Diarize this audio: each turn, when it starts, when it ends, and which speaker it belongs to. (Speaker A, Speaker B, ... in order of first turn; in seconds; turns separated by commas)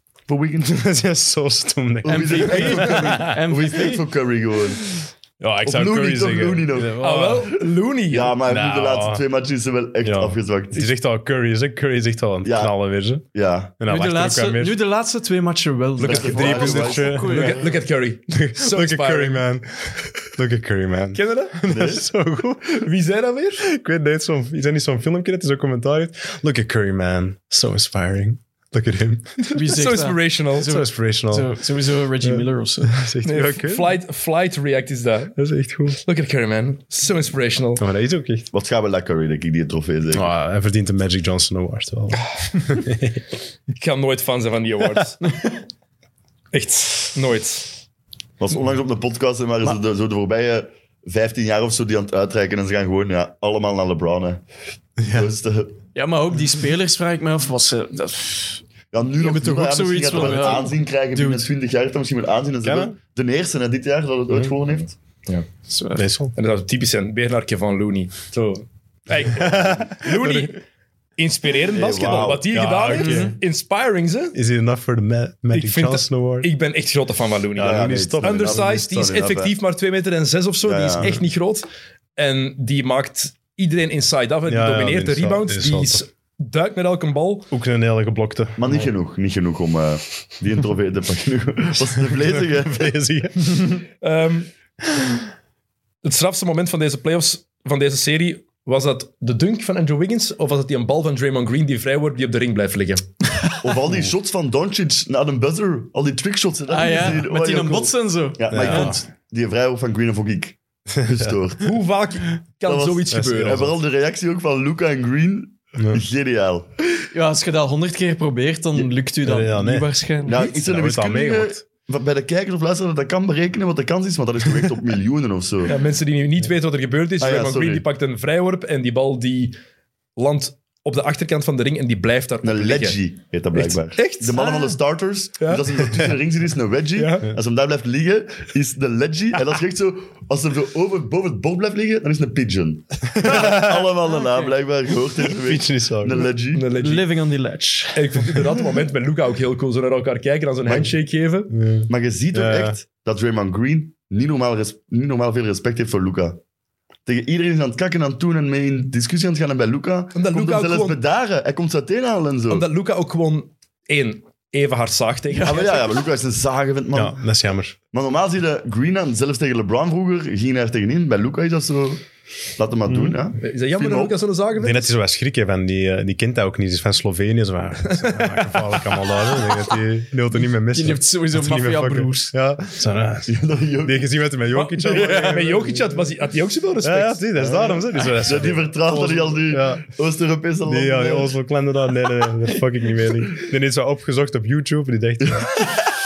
Speaker A: 0.3-0.8, Speaker B: 0.6-3.4, Speaker A: 2.0-4.9, Speaker C: 2.1-4.0, Speaker B: 5.0-7.6, Speaker A: 5.6-7.1, Speaker D: 7.0-8.4, Speaker A: 8.1-10.9, Speaker B: 8.4-9.2, Speaker B: 10.0-13.2, Speaker A: 12.4-12.8, Speaker A: 13.3-13.8, Speaker B: 13.8-14.8, Speaker C: 13.9-17.6, Speaker A: 16.0-17.7, Speaker B: 16.0-17.6, Speaker D: 17.2-19.4, Speaker B: 18.3-22.9, Speaker D: 21.1-21.6, Speaker A: 21.7-22.1, Speaker D: 22.7-23.7, Speaker B: 23.6-29.4, Speaker D: 29.4-30.7, Speaker C: 29.5-33.0, Speaker B: 30.6-31.6, Speaker B: 32.2-33.9, Speaker D: 33.2-35.4, Speaker B: 35.4-36.0, Speaker D: 36.0-37.8, Speaker B: 37.8-38.5, Speaker A: 38.5-40.3, Speaker B: 40.1-43.2, Speaker D: 43.7-45.2, Speaker D: 46.5-47.8, Speaker A: 48.4-54.4, Speaker A: 55.0-55.8, Speaker B: 55.0-55.3, Speaker C: 55.9-58.6, Speaker A: 58.9-65.0, Speaker C: 59.2-61.5, Speaker B: 62.6-63.0, Speaker C: 65.7-66.1, Speaker B: 66.0-66.3, Speaker D: 66.3-70.6, Speaker B: 69.3-70.5, Speaker D: 71.2-74.3, Speaker A: 71.7-72.5, Speaker B: 72.0-73.4, Speaker C: 73.0-73.3, Speaker B: 74.3-76.5, Speaker D: 75.5-81.7, Speaker B: 77.5-78.7, Speaker A: 77.6-79.5, Speaker A: 80.6-81.1, Speaker D: 82.2-87.5, Speaker B: 84.5-86.0, Speaker B: 87.5-88.9, Speaker A: 88.6-92.9, Speaker B: 92.1-93.8, Speaker D: 94.0-94.5, Speaker B: 94.9-95.2, Speaker D: 96.0-103.1, Speaker A: 103.6-111.8, Speaker C: 106.7-108.9, Speaker B: 108.5-109.0, Speaker B: 111.0-111.3, Speaker D: 111.6-113.7, Speaker A: 112.7-116.7, Speaker B: 113.1-113.7, Speaker B: 115.8-116.0, Speaker C: 117.1-120.5, Speaker B: 119.2-121.6, Speaker A: 120.2-125.8, Speaker D: 125.7-129.5, Speaker A: 127.2-127.8, Speaker D: 130.2-133.0, Speaker A: 132.4-146.7, Speaker D: 133.5-134.7, Speaker D: 136.9-137.3, Speaker B: 143.2-143.9, Speaker B: 145.3-146.3, Speaker D: 146.5-147.1, Speaker C: 146.7-148.3, Speaker D: 147.9-151.5, Speaker B: 151.5-152.8, Speaker A: 151.9-156.4, Speaker A: 157.1-162.6, Speaker D: 160.1-161.0, Speaker D: 162.5-165.9, Speaker A: 165.4-167.2, Speaker B: 166.9-167.8, Speaker A: 167.9-172.0, Speaker A: 172.6-174.2, Speaker B: 172.9-173.2, Speaker D: 173.4-174.9, Speaker B: 174.6-186.1, Speaker D: 177.8-179.4, Speaker C: 180.7-182.3, Speaker A: 183.3-184.1, Speaker D: 184.5-187.2, Speaker B: 186.8-189.8, Speaker A: 187.4-191.3, Speaker B: 190.6-195.6